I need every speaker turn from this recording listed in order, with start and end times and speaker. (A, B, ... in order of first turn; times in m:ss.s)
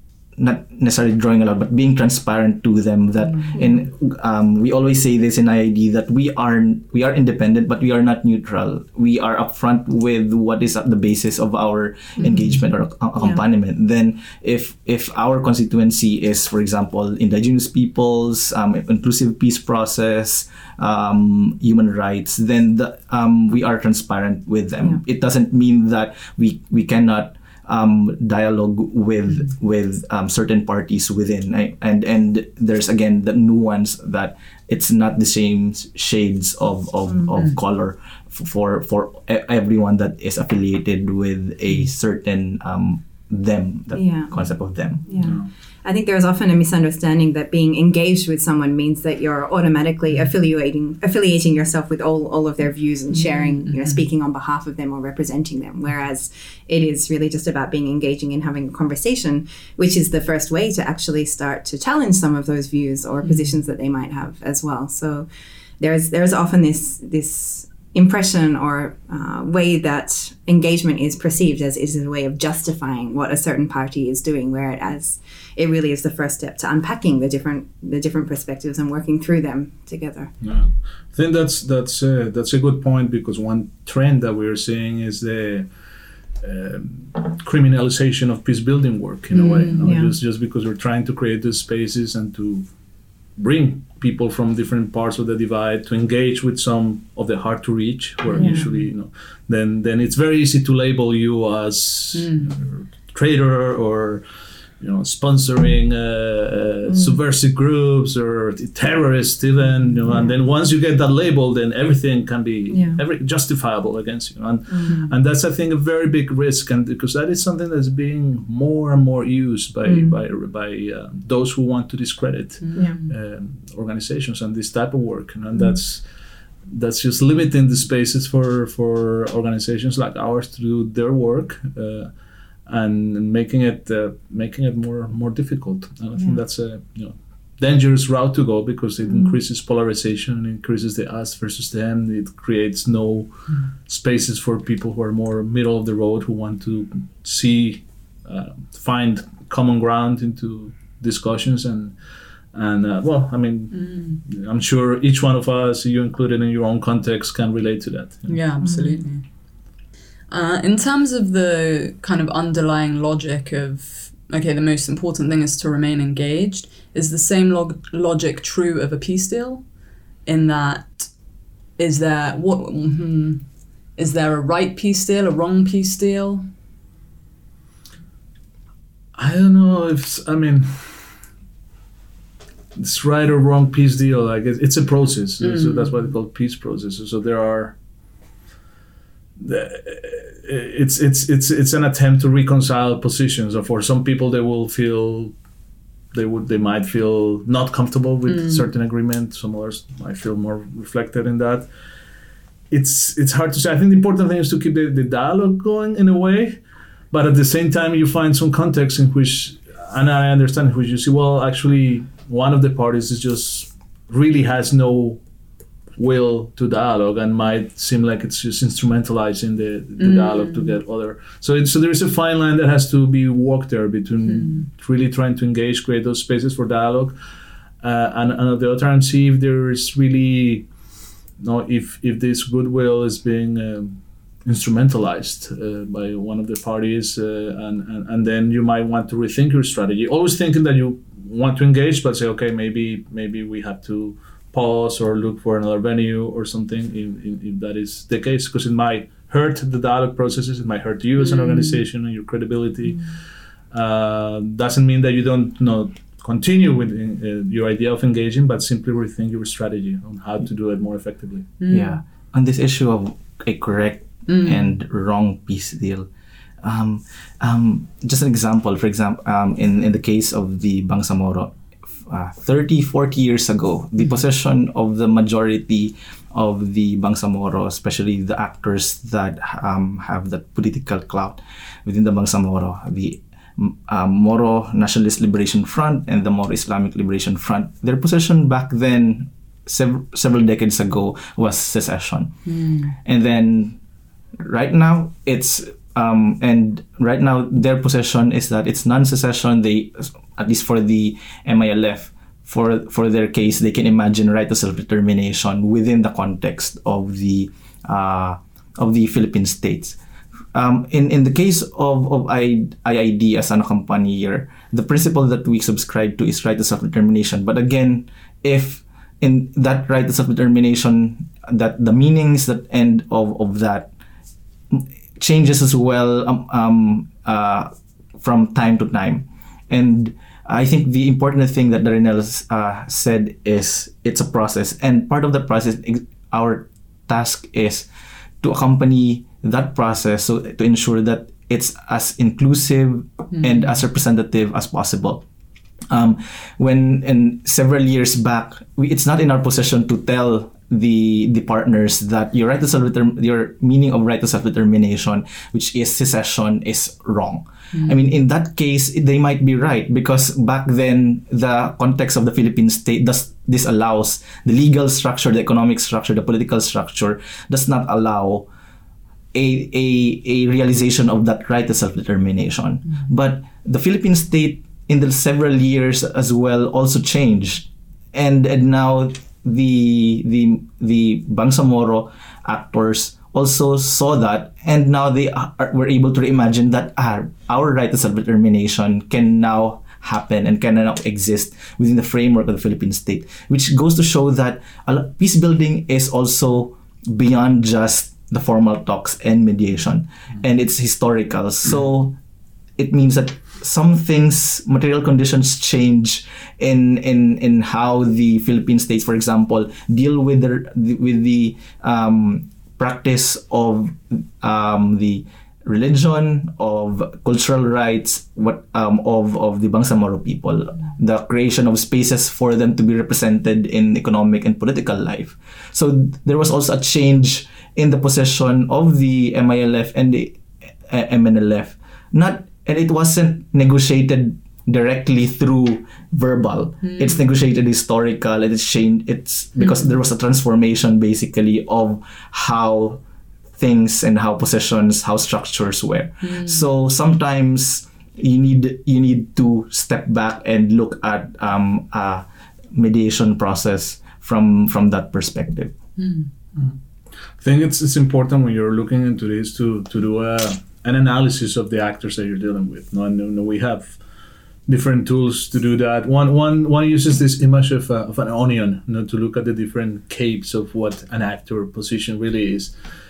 0:00.4-0:45.1 A
0:12.2-0:12.5 B
0:43.9-0:44.3 C
0:45.1-1:05.3 C
0:45.2-0:45.5 D
0:53.1-0:54.0 B
1:05.8-1:20.3 C
1:20.4-1:25.7 D
1:26.4-1:32.7 D
1:29.3-1:30.1 C
1:29.4-1:29.8 B
1:33.4-1:44.2 D
1:38.3-1:38.7 B
1:38.4-1:38.6 C
1:42.1-1:42.6 B
1:44.8-2:06.1 D
1:46.9-1:47.2 C
1:50.1-1:50.3 C
1:52.7-1:53.0 C
1:54.7-1:55.1 C
1:59.8-2:00.2 C
2:02.6-2:03.1 B
2:06.6-2:12.1 D
2:12.6-2:32.0 D
2:32.5-2:38.4 D
2:33.7-2:34.2 B
2:38.3-2:39.2 B
2:38.6-2:39.0 C
2:40.3-2:49.6 B
2:50.2-2:51.1 B
2:51.8-2:56.5 B
2:59.2-3:01.1 D
3:02.7-3:07.7 D
3:05.4-3:05.9 B
3:09.4-3:15.3 D
3:16.1-3:21.7 D
3:18.2-3:18.6 B
3:22.7-3:35.2 D
3:36.0-3:47.2 D
3:40.0-3:40.7 B
3:44.2-3:44.6 B
3:47.8-3:50.7 D
3:51.4-4:13.2 D
4:11.2-4:11.8 B
4:13.7-4:21.5 D
4:21.6-4:22.0 B
4:21.7-4:26.1 A
4:24.3-4:24.7 B
4:26.6-4:31.5 A
4:32.1-4:52.4 A
4:52.4-4:52.9 B
4:53.0-4:53.8 A
4:54.4-5:10.0 A
5:10.5-5:23.9 A
5:24.7-5:37.9 A
5:38.4-5:45.2 A
5:45.9-6:08.5 A
6:09.3-6:42.2 A
6:42.8-7:23.0 A
7:16.8-7:17.2 B
7:23.6-7:35.7 A
7:26.2-7:26.6 B
7:36.0-7:36.3 B
7:37.4-7:44.0 D
7:44.6-7:52.7 D